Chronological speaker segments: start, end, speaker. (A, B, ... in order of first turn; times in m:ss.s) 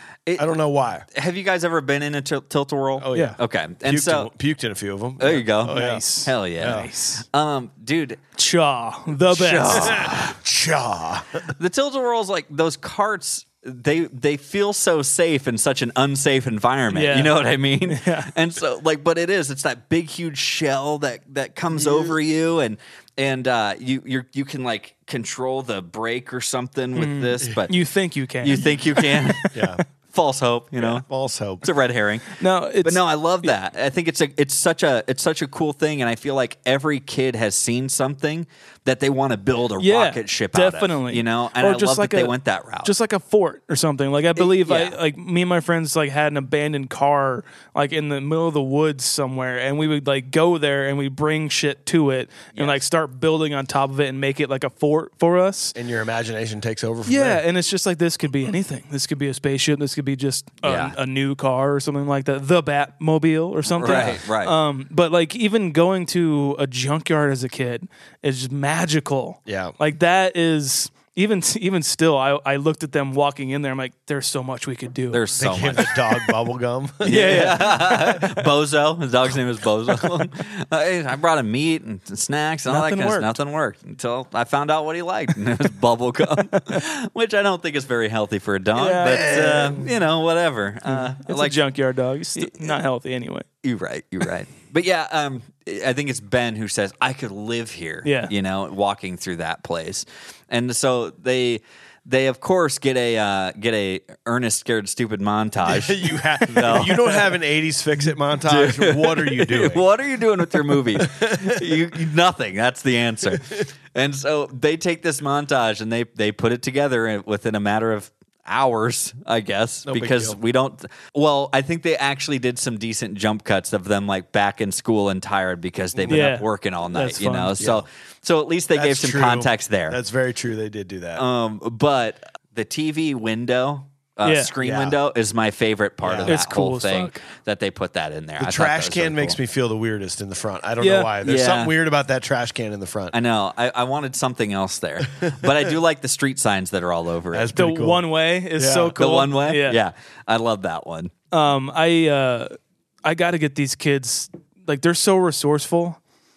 0:00.2-0:00.5 A
0:00.4-0:01.0 B
0:01.1-0:04.3 A
0:03.0-0:06.0 B
0:05.2-0:08.2 A
0:05.6-0:07.2 C
0:06.6-0:06.9 B
0:08.4-0:10.0 C
0:09.3-0:10.4 A
0:09.7-0:11.4 B
0:11.6-0:27.7 A
0:16.9-0:18.3 C
0:21.8-0:22.1 B
0:26.9-0:29.8 C
0:28.4-0:29.5 A
0:29.5-0:29.8 B
0:30.1-0:31.0 A
0:30.8-0:31.6 B
0:31.6-0:42.9 A
0:32.4-0:33.5 C
0:39.8-0:55.7 C
0:44.4-0:45.0 A
0:52.5-0:52.8 A
0:55.7-0:57.4 B
0:57.1-1:15.2 C
1:00.6-1:00.9 A
1:03.7-1:04.5 A
1:03.8-1:04.2 B
1:09.5-1:09.7 B
1:15.1-1:16.0 A
1:15.4-1:17.6 B
1:17.0-1:31.6 A
1:17.0-1:18.3 C
1:22.7-1:23.3 C
1:28.7-1:29.8 C
1:29.0-1:29.9 B
1:30.9-1:33.5 C
1:32.4-1:32.7 A
1:33.6-1:47.3 A
1:38.0-1:38.3 C
1:45.6-1:49.8 B
1:48.5-2:10.0 A
1:50.7-1:51.6 B
1:59.9-2:00.4 B
2:05.9-2:06.3 B
2:06.1-2:07.5 C
2:07.6-2:07.8 B
2:08.7-2:11.2 B
2:11.2-2:19.4 A
2:14.2-2:14.5 C
2:14.6-2:15.0 B
2:16.0-2:16.3 B
2:16.2-2:17.2 C
2:18.4-2:23.1 B
2:20.8-2:21.1 C
2:21.2-2:21.7 A
2:23.1-2:27.5 A
2:25.1-2:25.6 B
2:27.3-2:29.0 B
2:27.5-2:29.8 C
2:28.9-2:31.1 A
2:31.3-2:36.0 C